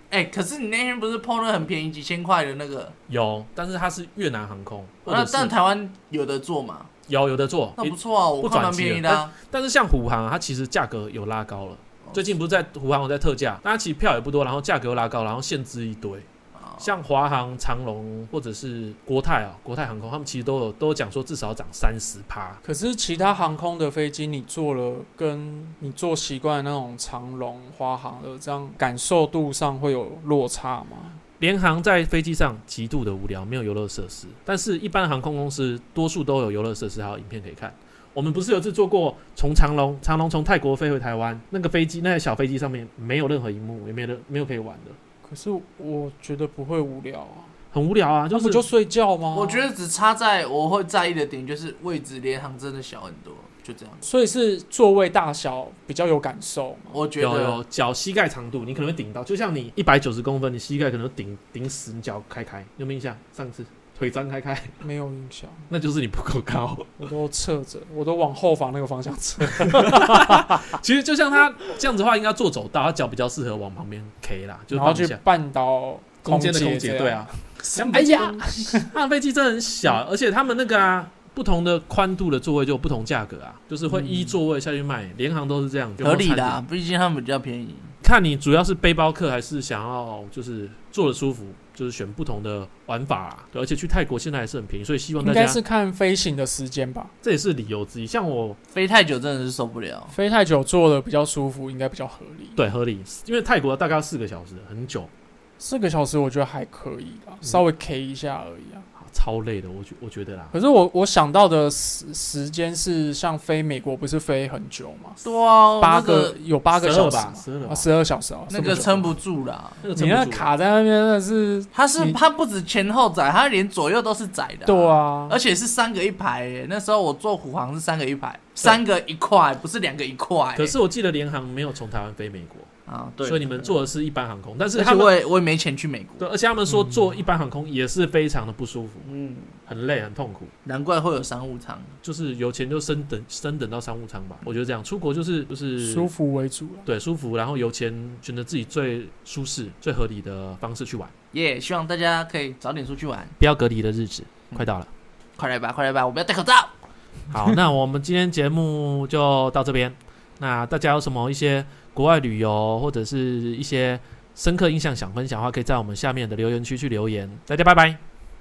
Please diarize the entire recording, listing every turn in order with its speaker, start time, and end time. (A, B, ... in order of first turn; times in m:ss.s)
0:00.1-0:02.9 A
0:03.1-0:05.5 B
0:05.1-0:06.9 A
0:07.1-0:16.3 B
0:07.8-0:09.3 A
0:16.8-0:22.6 B
0:22.6-0:31.2 C
0:31.4-0:45.0 B
0:45.2-0:47.5 C
0:47.7-0:48.6 B
0:48.3-0:49.7 C
0:49.3-0:54.0 A
0:54.0-0:57.0 C
0:56.9-0:57.6 A
0:57.2-1:04.7 B
1:04.8-1:05.7 C
1:05.7-1:06.9 B
1:07.0-1:10.6 C
1:09.5-1:15.2 B
1:14.7-1:18.9 C
1:16.2-1:26.6 B
1:17.7-1:18.4 A
1:23.9-1:24.4 A
1:26.0-1:27.9 A
1:28.0-1:35.6 B
1:35.2-1:37.1 C
1:37.2-1:38.6 B
1:38.7-1:40.1 A
1:40.1-1:42.6 C
1:42.6-1:45.1 B
1:45.6-1:48.9 C
1:49.0-1:50.5 B
1:50.5-1:55.2 C
1:55.2-1:56.4 A
1:55.8-1:59.0 C
1:56.7-1:57.9 B
1:58.5-1:59.8 A
1:58.5-1:59.1 B
1:59.8-2:00.5 B
2:00.0-2:02.2 C
2:01.7-2:10.7 A
2:04.6-2:05.4 C
2:10.6-2:12.7 B
2:12.9-2:13.7 A
2:13.2-2:15.1 B
2:14.7-2:16.2 A
2:16.2-2:19.1 B
2:19.0-2:19.5 A
2:19.7-2:20.5 B
2:20.6-2:21.9 A
2:22.0-2:26.1 B
2:25.8-2:26.9 C
2:26.9-2:31.1 B
2:31.3-2:33.4 A
2:33.4-2:34.9 B
2:35.4-2:36.7 A
2:37.3-2:48.0 B